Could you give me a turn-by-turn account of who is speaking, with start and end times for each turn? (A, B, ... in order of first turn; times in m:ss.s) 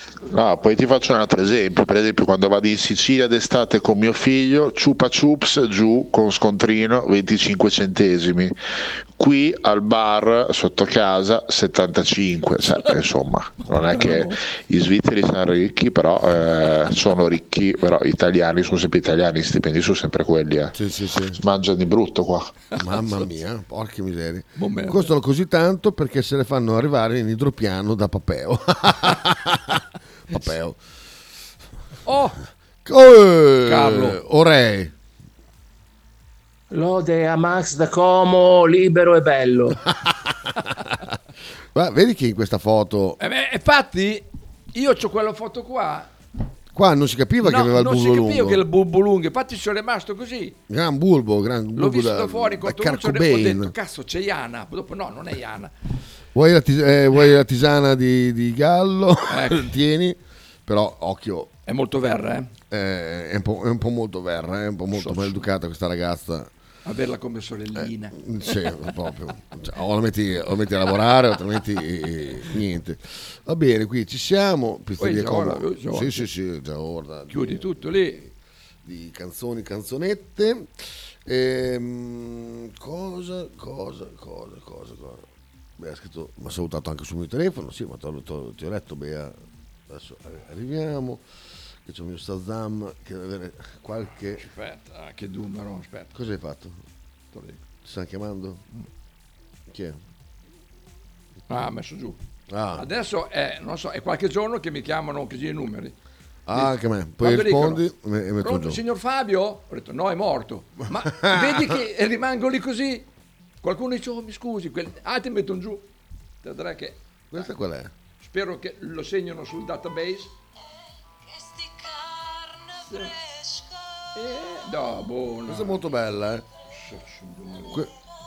0:00.3-0:08.5 A
0:09.2-0:20.8 A
0:13.6-0:14.4 B
0:20.7-0:21.4 C
0:21.4-0:22.5 A
0:22.8-0:30.8 C
0:24.6-0:25.1 B
0:32.0-0:32.4 B
0:32.8-0:34.9 C
0:33.6-0:34.2 B
0:36.7-0:39.8 D
0:41.7-0:43.2 C
0:43.2-0:46.1 B
0:46.7-0:48.6 C
0:47.4-0:50.6 B
0:50.7-0:53.7 C
0:51.8-0:55.7 B
0:56.3-1:01.5 C
0:59.3-0:59.6 B
1:01.6-1:02.5 B
1:02.7-1:06.5 C
1:04.9-1:05.4 B
1:06.8-1:08.5 B
1:07.8-1:18.3 C
1:15.0-1:16.2 B
1:17.3-1:18.2 B
1:18.8-1:20.7 C
1:21.2-1:25.3 C
1:25.8-1:29.3 C
1:29.9-1:31.2 C
1:31.8-1:34.4 C
1:34.4-1:36.1 B
1:36.1-1:36.8 C
1:37.3-1:37.6 B
1:37.8-1:38.6 C
1:39.7-1:40.0 C
1:41.5-1:42.2 B
1:42.5-1:42.8 C
1:42.8-1:45.9 B
1:46.4-1:48.8 C
1:46.5-1:47.8 B
1:48.4-1:53.0 B
1:51.1-1:51.7 C
1:53.6-1:55.8 B
1:56.4-1:57.5 B
1:57.3-1:57.9 C
1:58.2-2:00.3 B
2:02.9-2:03.1 B
2:04.1-2:05.8 B
2:05.5-2:06.4 C
2:06.7-2:07.8 B